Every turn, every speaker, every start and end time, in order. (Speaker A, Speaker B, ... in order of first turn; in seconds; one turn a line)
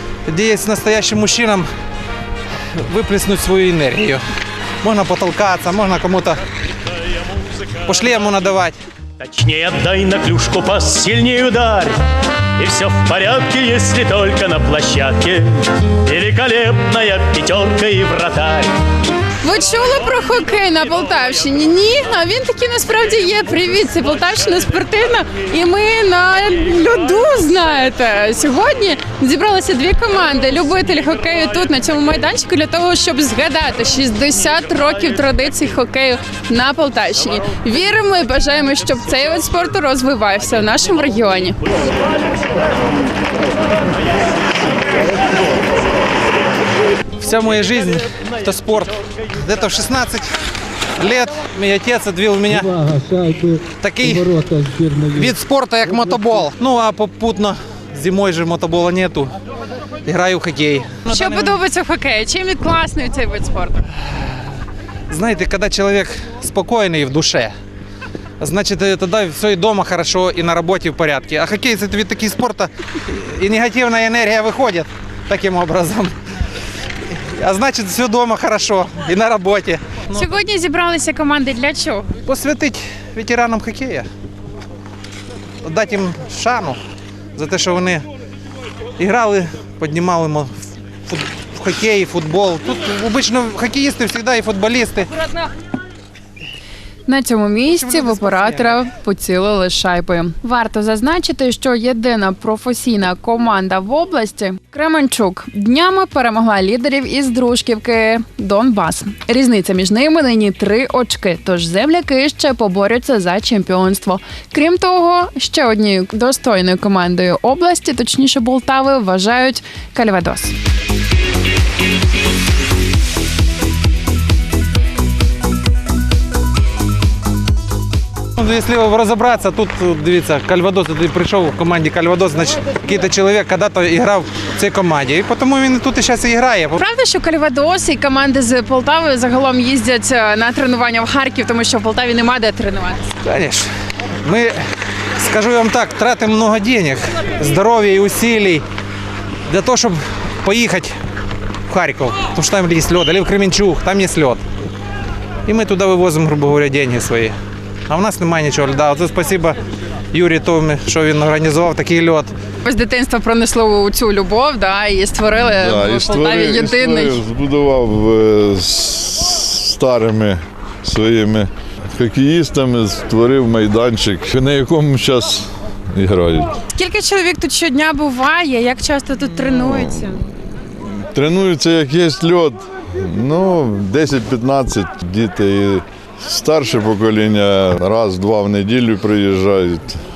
Speaker A: 0.3-1.7
Speaker A: 2.8-4.2
Speaker A: 4.8-6.4
Speaker A: 7.9-8.8
Speaker B: 9.2-12.0
Speaker B: 12.6-18.8
Speaker C: 19.4-41.6
Speaker A: 47.2-50.3
Speaker A: 51.0-52.7
Speaker D: 52.6-55.2
Speaker A: 53.8-54.2
Speaker A: 55.2-59.3
Speaker A: 60.1-61.6
Speaker C: 61.1-63.9
Speaker A: 65.1-67.5
Speaker A: 68.4-76.2
Speaker A: 77.3-80.2
Speaker C: 80.1-82.2
Speaker A: 82.2-84.1
Speaker A: 85.6-86.8
Speaker A: 87.4-88.0
Speaker A: 89.0-90.5
Speaker A: 91.1-95.1
Speaker C: 97.0-120.5
Speaker A: 97.8-98.7
Speaker A: 128.4-136.8
Speaker C: 136.8-143.2
Speaker A: 143.2-143.7
Speaker A: 144.2-144.6
Speaker A: 145.2-148.6
Speaker A: 149.5-150.9
Speaker A: 151.7-154.4
Speaker A: 155.5-157.3
Speaker A: 157.9-159.6
Speaker A: 160.1-162.3
Speaker C: 162.6-167.2
Speaker E: 165.4-176.5
Speaker C: 176.7-180.3
Speaker E: 179.7-180.1
Speaker E: 180.8-189.9